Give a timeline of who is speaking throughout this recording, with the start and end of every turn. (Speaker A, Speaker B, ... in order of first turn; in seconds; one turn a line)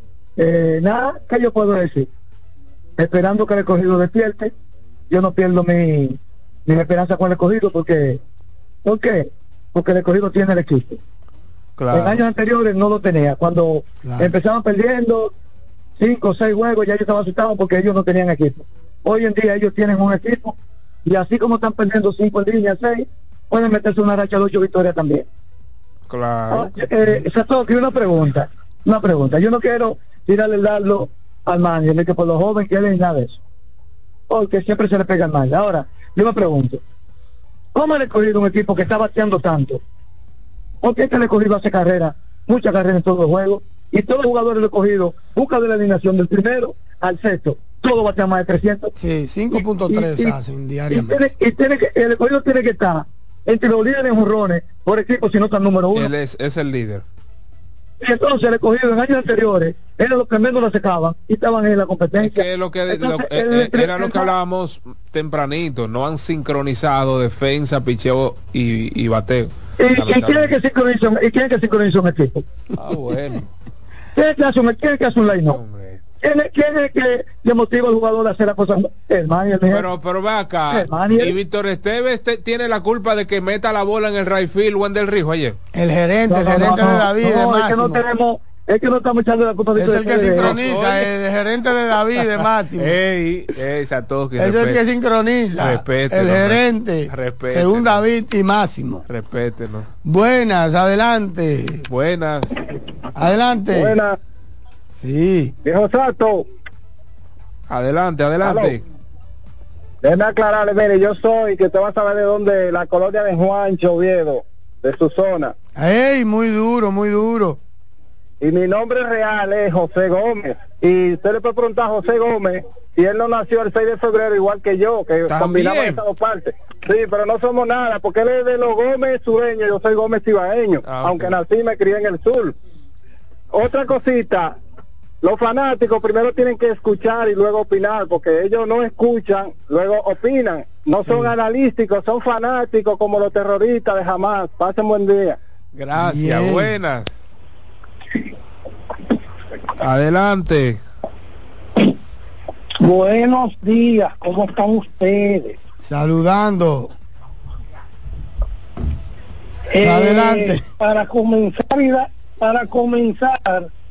Speaker A: 0.4-2.1
Speaker A: 3.0-4.5
Speaker A: 5.1-8.2
Speaker A: 8.8-11.0
Speaker B: 11.8-12.2
Speaker A: 11.9-15.3
Speaker C: 14.0-14.3
Speaker A: 16.0-25.2
Speaker B: 26.1-26.7
Speaker A: 26.5-33.4
Speaker A: 34.3-36.8
Speaker A: 37.7-39.8
Speaker A: 40.8-48.9
Speaker C: 49.0-51.2
Speaker A: 49.5-50.4
Speaker A: 50.9-56.1
Speaker B: 55.9-57.0
Speaker A: 58.0-64.3
Speaker B: 62.2-70.5
Speaker A: 69.8-72.4
Speaker B: 72.7-73.5
Speaker A: 74.1-75.6
Speaker B: 75.5-76.0
Speaker A: 76.2-79.9
Speaker B: 79.7-85.6
Speaker A: 80.7-81.3
Speaker C: 85.7-88.0
Speaker A: 86.3-90.6
Speaker C: 89.7-93.0
Speaker B: 90.3-91.1
Speaker B: 92.8-94.8
Speaker C: 94.3-99.0
Speaker B: 95.6-98.2
Speaker B: 99.1-99.9
Speaker C: 100.0-101.8
Speaker B: 101.9-102.6
Speaker C: 103.1-104.0
Speaker D: 103.7-104.2
Speaker C: 105.0-105.5
Speaker D: 105.6-106.5
Speaker B: 107.7-108.8
Speaker D: 108.4-108.8
Speaker D: 110.0-115.5
Speaker C: 115.8-117.6
Speaker D: 118.4-132.6
Speaker B: 125.3-126.0
Speaker B: 130.8-131.4
Speaker D: 133.5-134.6
Speaker D: 135.2-145.4
Speaker C: 141.0-141.3
Speaker B: 145.7-147.1
Speaker C: 146.0-146.7
Speaker B: 149.8-150.8
Speaker E: 152.8-155.6
Speaker C: 155.8-156.9
Speaker E: 159.7-163.7
Speaker C: 159.8-160.6